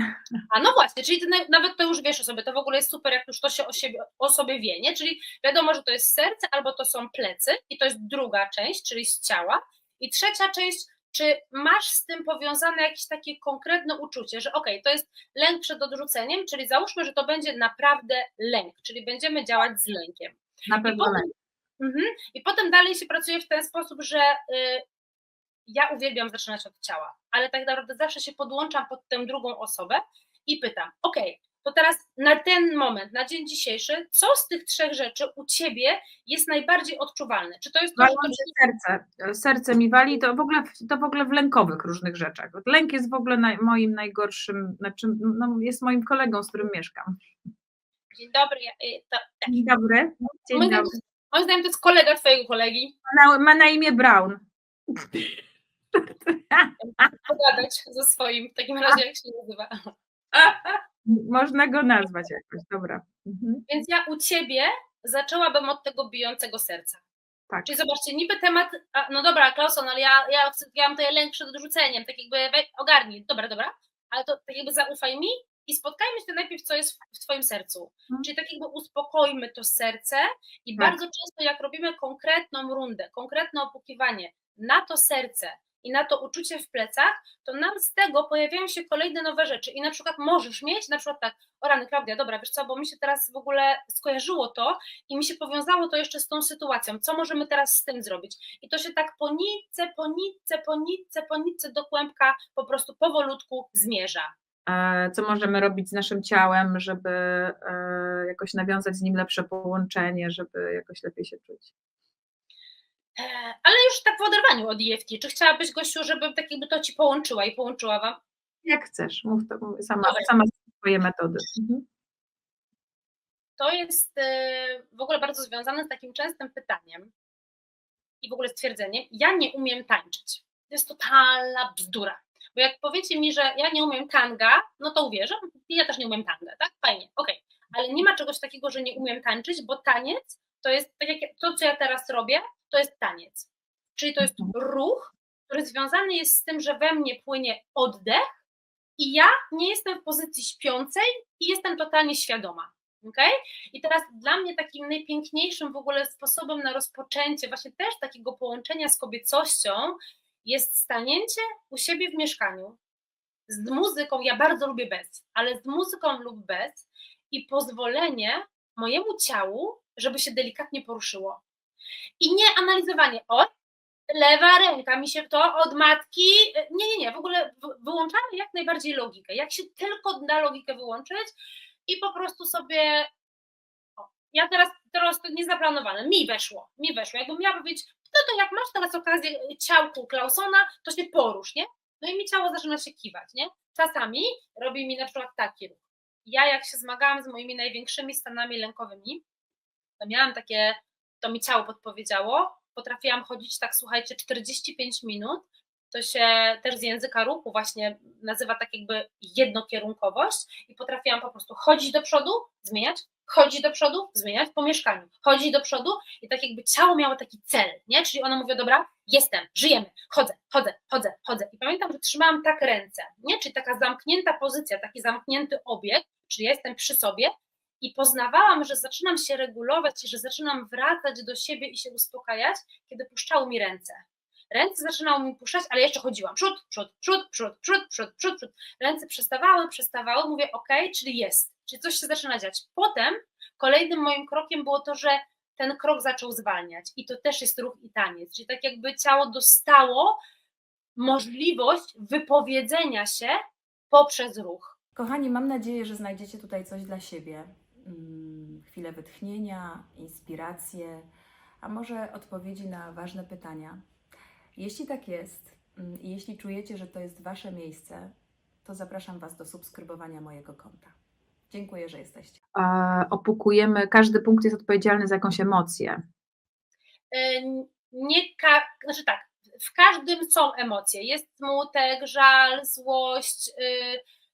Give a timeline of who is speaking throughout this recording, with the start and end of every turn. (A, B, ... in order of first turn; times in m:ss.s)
0:00.5-0:24.8 A
0:20.7-0:21.3 B
0:25.7-0:38.6 A
0:38.0-0:47.1 B
0:48.1-0:49.5 A
0:49.5-0:50.9 B
0:50.5-0:52.9 A
0:53.1-0:55.4 B
0:55.9-0:57.1 B
0:56.8-1:00.8 A
1:01.1-1:03.6 B
1:03.7-1:07.0 A
1:07.6-1:44.3 A
1:44.7-1:51.7 B
1:53.2-1:58.2 A
1:58.6-2:01.8 B
2:00.0-2:00.3 A
2:03.6-2:07.1 A
2:08.2-2:28.3 A
2:24.2-2:24.5 B
2:29.0-2:42.8 A
2:43.5-2:51.4 A
2:52.2-2:53.5 A
2:54.1-3:01.3 A
3:01.9-3:03.1 A
3:04.0-3:19.2 A
3:20.0-4:10.2 A
4:11.0-4:13.4 A
4:13.9-4:14.7 A
4:15.0-4:21.1 C
4:21.6-4:23.8 C
4:24.6-4:28.1 C
4:28.6-4:30.9 C
4:31.5-4:32.4 C
4:32.6-4:36.0 B
4:37.1-4:44.0 A